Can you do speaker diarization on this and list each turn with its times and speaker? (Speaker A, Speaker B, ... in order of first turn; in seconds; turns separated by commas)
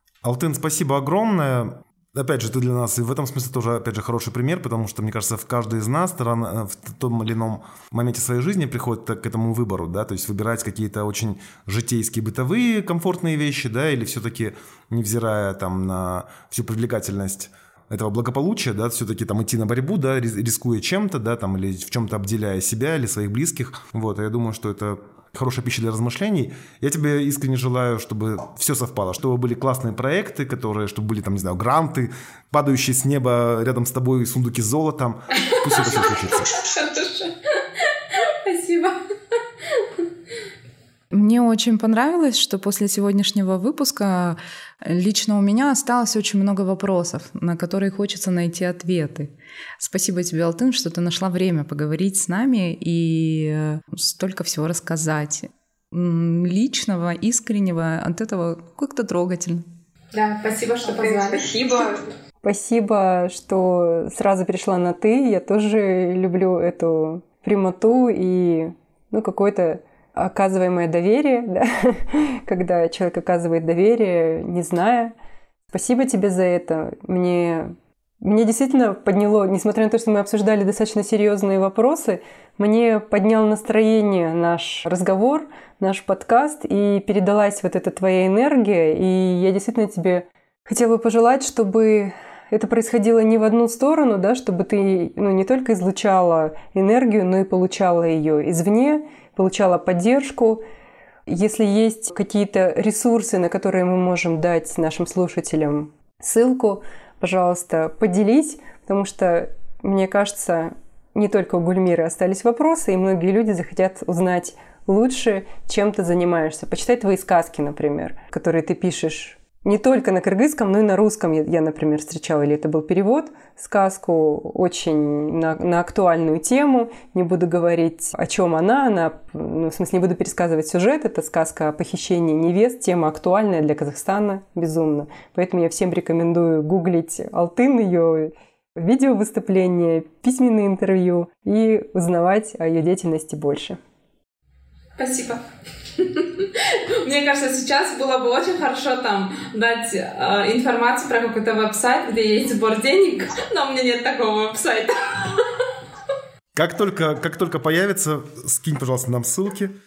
Speaker A: 0.2-36.5, Speaker B: 35.4-39.0, Speaker C: 41.1-59.6, Speaker B: 60.1-62.0, Speaker D: 62.4-75.1, Speaker D: 75.7-100.6, Speaker D: 101.3-143.8, Speaker B: 145.0-145.4, Speaker B: 146.0-155.5, Speaker A: 156.6-159.7